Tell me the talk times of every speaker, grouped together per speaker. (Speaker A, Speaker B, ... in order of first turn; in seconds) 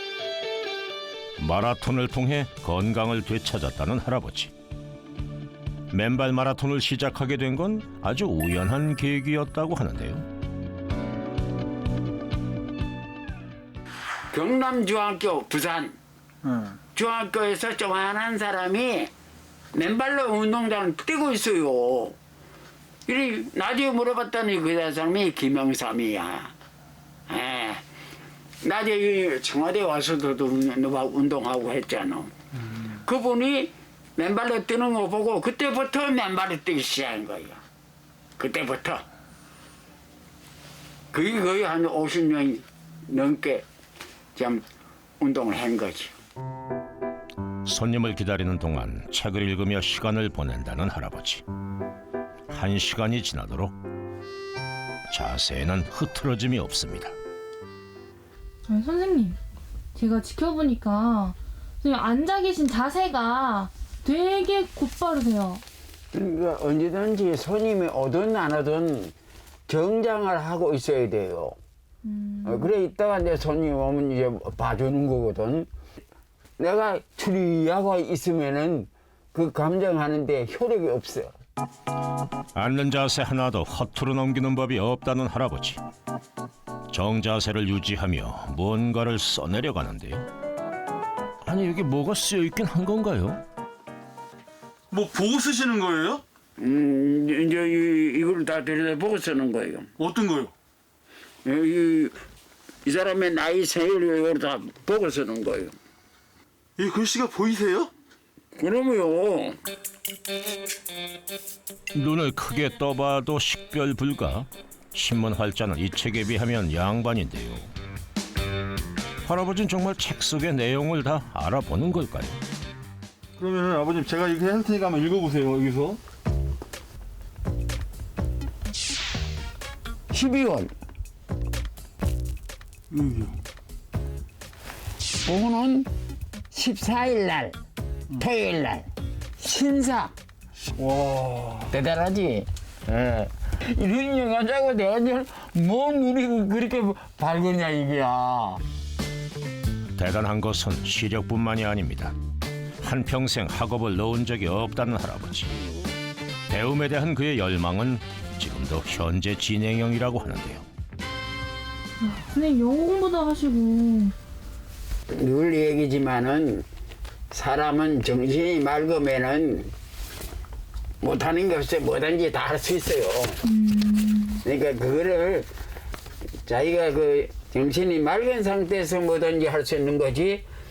Speaker A: 1.4-4.5, 5.9-10.3, 47.6-51.4, 52.5-53.8, 55.1-57.1, 82.5-85.8, 86.9-90.3, 91.4-93.4, 111.9-117.7, 119.2-122.4, 149.9-152.2, 152.8-155.6, 156.5-160.6
Speaker B: 14.3-16.0, 16.9-19.1, 19.7-22.2, 23.1-26.5, 27.3-27.8, 28.6-32.3, 32.9-37.6, 38.4-39.0, 41.1-43.6, 44.3-44.6, 45.2-46.1, 66.1-69.1, 69.7-71.6, 72.4-75.7, 76.6-81.3, 96.6-99.9, 101.4-102.1, 102.8-105.7, 108.5-109.6, 130.1-130.7, 135.2-135.9, 136.5-137.6, 138.1-140.1, 141.7-148.6, 165.1-166.7, 167.3-169.7, 171.0-173.4, 174.4-175.5, 176.4-180.4
Speaker C: 16.4-16.7, 94.9-96.2, 100.0-100.5, 106.8-107.9, 123.4-126.0, 132.9-133.3, 140.8-141.7
Speaker D: 58.7-59.4, 59.9-65.6, 72.0-72.7, 162.0-164.1, 173.4-174.4